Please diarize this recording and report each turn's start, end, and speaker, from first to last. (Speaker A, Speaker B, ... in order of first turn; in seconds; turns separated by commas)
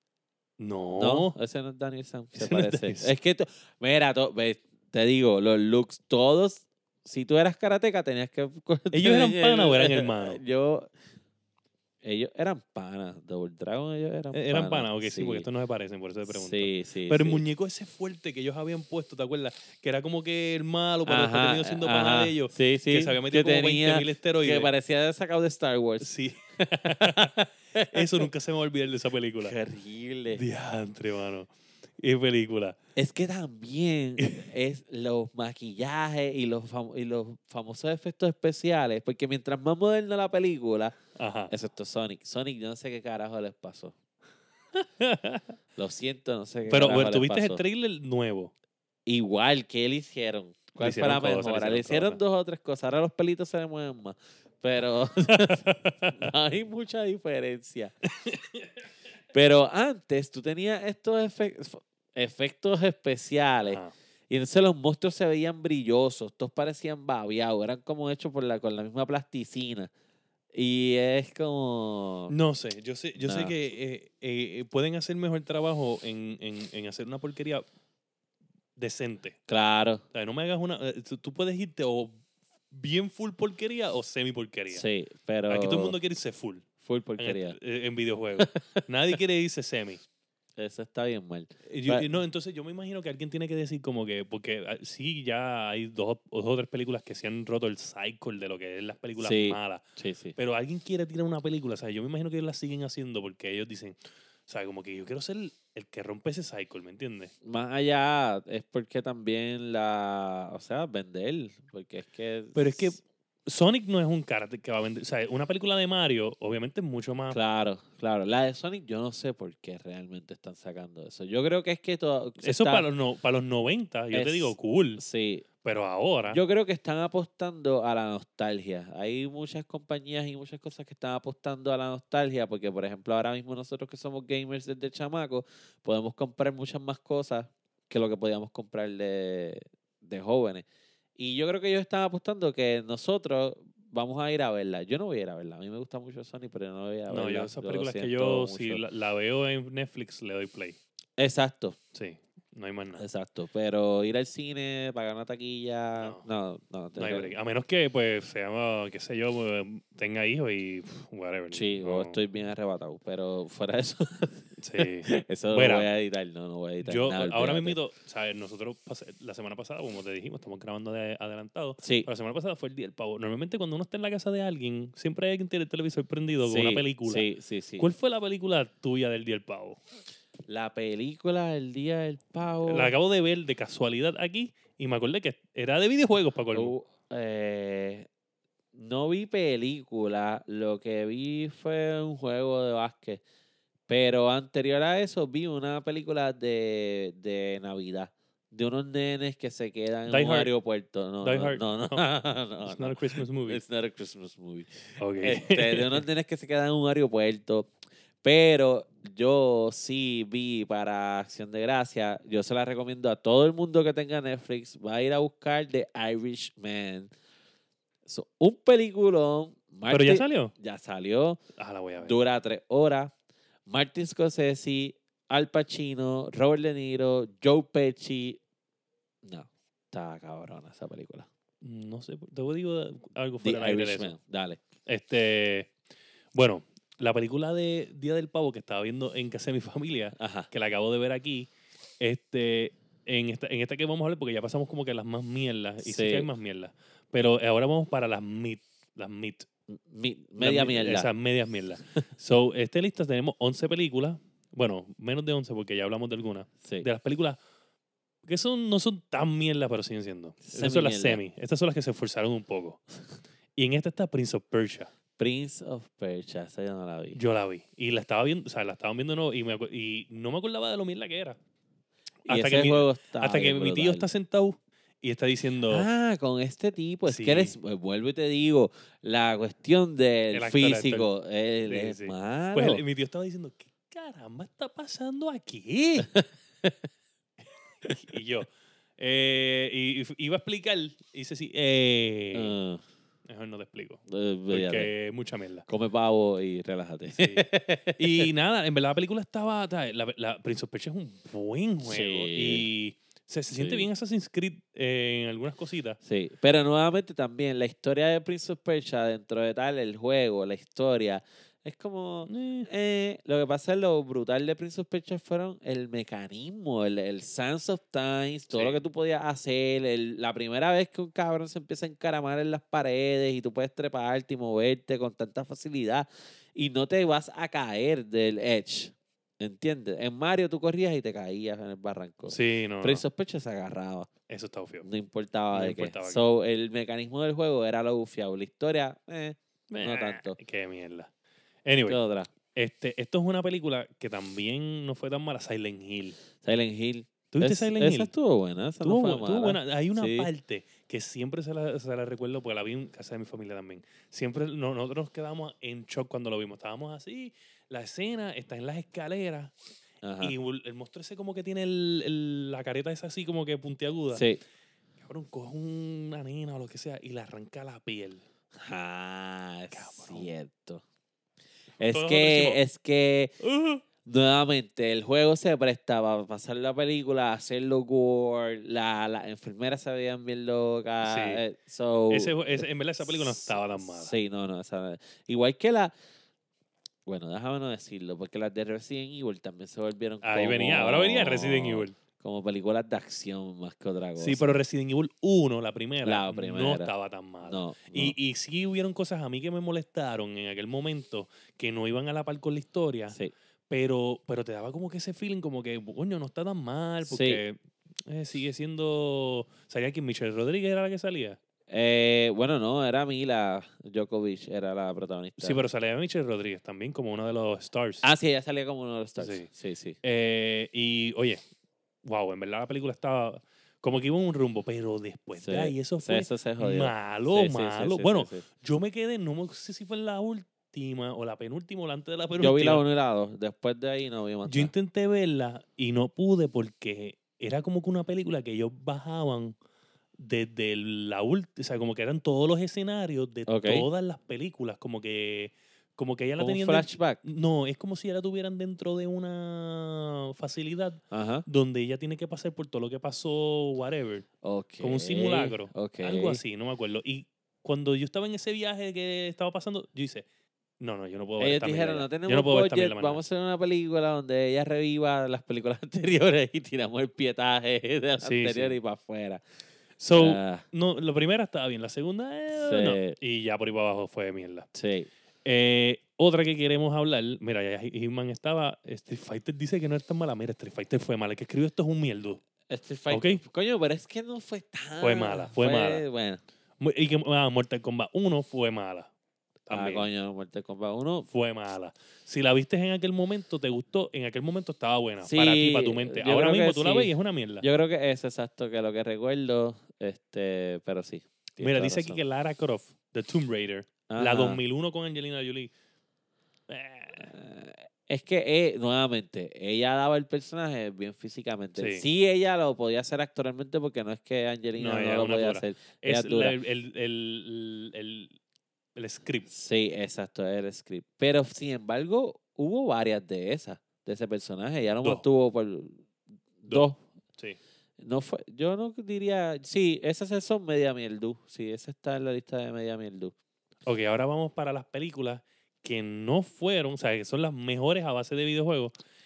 Speaker A: 0.6-1.3, Speaker B: 1.0-10.9, Speaker A: 2.4-3.1, Speaker A: 8.9-10.4, Speaker B: 12.0-15.5, Speaker A: 14.3-24.7, Speaker B: 16.3-17.4, Speaker B: 21.1-28.3, Speaker A: 26.0-27.4, Speaker A: 27.9-29.5, Speaker B: 29.4-30.4, Speaker A: 30.3-32.8, Speaker B: 33.0-41.0, Speaker A: 34.2-34.5, Speaker A: 41.1-41.5, Speaker B: 41.5-43.9, Speaker A: 44.7-45.4, Speaker B: 45.8-47.6, Speaker A: 46.7-48.5, Speaker B: 49.0-57.9, Speaker A: 50.8-52.2, Speaker A: 55.3-56.2, Speaker A: 58.2-58.6, Speaker B: 59.3-69.9, Speaker A: 63.6-63.9, Speaker B: 70.5-72.3, Speaker A: 72.3-77.6, Speaker B: 73.2-73.5, Speaker A: 78.8-79.4, Speaker B: 79.5-80.0, Speaker A: 80.1-82.2, Speaker A: 82.7-84.8, Speaker B: 84.7-86.0, Speaker A: 85.5-86.7, Speaker B: 86.8-87.6, Speaker A: 87.2-90.0, Speaker B: 88.4-88.8, Speaker B: 90.6-92.1, Speaker A: 91.7-99.8, Speaker B: 99.2-100.4, Speaker A: 100.3-107.3, Speaker B: 107.4-113.0, Speaker A: 112.5-117.4, Speaker B: 117.3-122.9, Speaker A: 122.4-125.0, Speaker B: 124.1-125.5, Speaker A: 125.6-126.4, Speaker B: 126.3-140.7, Speaker B: 141.2-148.8, Speaker A: 147.1-150.8, Speaker B: 151.2-151.8, Speaker A: 151.9-153.0, Speaker B: 153.0-157.3, Speaker A: 156.0-156.2, Speaker A: 157.0-162.2, Speaker B: 161.5-167.8, Speaker A: 164.6-165.9, Speaker A: 166.8-177.2, Speaker B: 171.8-172.1, Speaker B: 176.4-177.9, Speaker A: 177.8-179.8, Speaker B: 180.5-182.9, Speaker A: 182.7-186.7, Speaker B: 186.5-188.1, Speaker B: 188.7-193.2, Speaker B: 193.9-207.7, Speaker A: 200.1-200.5, Speaker A: 201.2-202.0, Speaker A: 202.6-203.6, Speaker A: 205.0-206.0, Speaker B: 208.2-217.1, Speaker B: 218.1-221.4, Speaker A: 219.9-220.5, Speaker A: 221.6-222.2, Speaker B: 222.0-223.1, Speaker B: 223.7-228.4, Speaker B: 229.2-231.3, Speaker A: 231.6-234.1, Speaker B: 233.4-234.6, Speaker A: 234.8-235.7, Speaker A: 236.3-249.5, Speaker B: 240.2-240.5, Speaker B: 245.8-246.3, Speaker B: 249.7-251.1, Speaker A: 250.4-257.4, Speaker A: 258.2-262.8, Speaker B: 260.4-261.2, Speaker A: 263.6-264.9, Speaker B: 265.2-267.2, Speaker A: 267.1-271.4, Speaker B: 272.2-274.1, Speaker A: 272.3-275.9, Speaker B: 275.7-282.8, Speaker A: 277.1-277.5, Speaker A: 280.3-281.1, Speaker A: 281.6-286.1, Speaker B: 286.0-286.7, Speaker A: 287.8-292.5, Speaker B: 292.3-292.8, Speaker A: 293.3-295.6, Speaker B: 294.1-294.9, Speaker B: 295.7-298.3, Speaker A: 297.1-306.0, Speaker B: 301.8-302.6, Speaker B: 303.5-303.9, Speaker B: 306.0-334.1, Speaker A: 312.3-312.7, Speaker A: 318.5-318.8, Speaker A: 332.2-333.0, Speaker A: 334.3-334.9, Speaker B: 334.8-340.4, Speaker A: 335.5-336.2, Speaker A: 339.7-341.1, Speaker A: 341.6-342.0, Speaker B: 341.9-342.3, Speaker A: 342.5-346.2, Speaker B: 346.4-350.3, Speaker A: 347.3-348.1, Speaker A: 348.8-359.5, Speaker B: 360.0-360.3, Speaker A: 360.2-364.2, Speaker B: 364.1-364.4, Speaker A: 365.0-368.2, Speaker B: 368.6-370.8, Speaker A: 369.7-370.3, Speaker B: 371.8-373.3, Speaker A: 371.8-372.6, Speaker A: 373.4-373.8, Speaker B: 374.0-385.9, Speaker A: 381.0-381.4, Speaker A: 382.1-384.1, Speaker B: 387.1-394.6, Speaker A: 390.2-391.9, Speaker A: 394.2-403.2, Speaker B: 396.0-398.1, Speaker A: 403.7-411.4, Speaker B: 407.0-407.4, Speaker B: 411.7-415.6, Speaker A: 415.4-418.1, Speaker B: 418.0-420.0, Speaker A: 419.2-419.5, Speaker A: 420.0-421.4, Speaker A: 422.0-432.8, Speaker B: 425.4-428.4, Speaker B: 432.4-434.7, Speaker A: 434.4-439.6, Speaker A: 440.2-454.2, Speaker B: 443.5-443.9, Speaker B: 446.4-447.2, Speaker B: 451.1-451.4, Speaker B: 454.4-456.4, Speaker A: 454.8-460.2, Speaker A: 460.8-463.2, Speaker B: 461.4-469.4, Speaker A: 468.2-468.8, Speaker A: 470.0-474.7, Speaker B: 470.1-470.6, Speaker B: 472.5-473.1, Speaker B: 474.7-475.1, Speaker A: 475.4-482.4, Speaker B: 482.7-486.4, Speaker A: 483.1-483.4, Speaker A: 485.0-486.0, Speaker A: 486.8-489.1, Speaker A: 489.7-490.1, Speaker B: 489.7-491.3, Speaker A: 491.3-497.6, Speaker B: 495.2-502.2, Speaker A: 501.6-505.7, Speaker B: 504.1-504.6, Speaker A: 506.7-507.3, Speaker B: 507.1-516.5, Speaker A: 511.8-512.0, Speaker A: 514.8-518.4, Speaker A: 519.0-519.5, Speaker B: 519.5-526.0, Speaker B: 526.6-527.0, Speaker A: 526.7-527.6, Speaker B: 528.0-533.3, Speaker A: 533.8-538.9